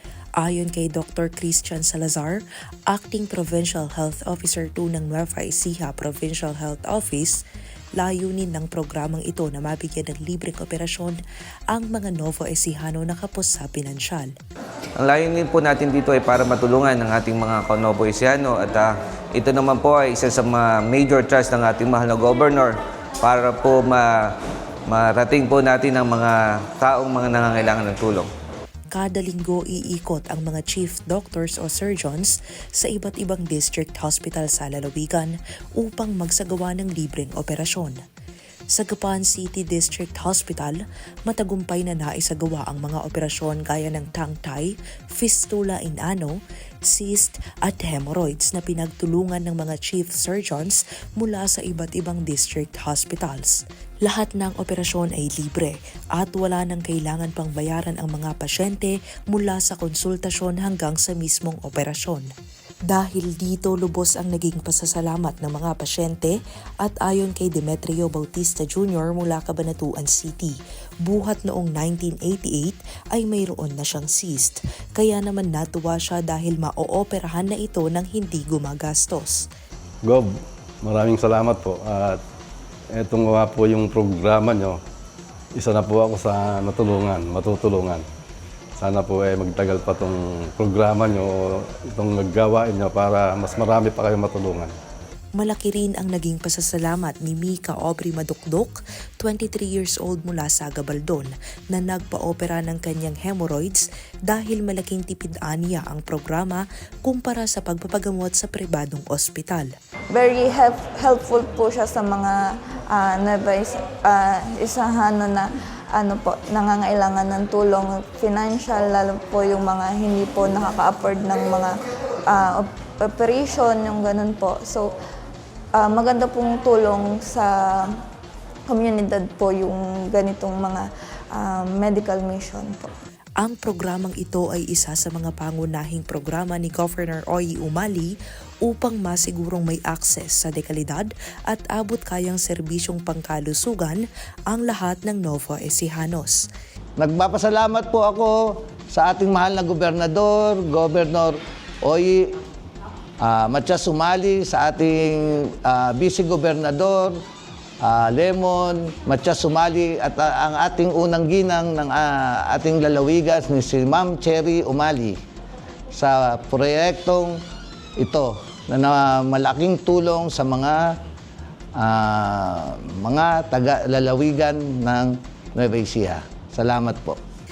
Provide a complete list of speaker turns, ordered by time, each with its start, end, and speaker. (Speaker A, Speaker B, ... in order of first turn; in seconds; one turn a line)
Speaker A: 0.4-7.4
Speaker A: 8.0-11.2
Speaker A: 11.7-14.3
Speaker B: 15.0-24.1
Speaker B: 24.9-28.3
Speaker A: 28.9-38.0
Speaker A: 38.7-46.4
Speaker A: 46.9-62.3
Speaker A: 62.9-79.5
Speaker C: 80.0-82.2
Speaker C: 82.9-84.8
Speaker C: 85.5-88.0
Speaker C: 88.8-94.7
Speaker A: 95.3-109.7
Speaker D: 110.1-121.7
Speaker D: 122.3-124.9
Speaker D: 125.7-128.0
Speaker D: 128.7-132.9
Speaker A: 133.4-138.1
Speaker A: 138.6-146.4
Speaker E: 147.0-152.3
Speaker E: 153.2-157.2
Speaker E: 157.8-165.2
Speaker E: 165.9-167.4
Speaker E: 168.0-170.9
Speaker E: 171.7-177.2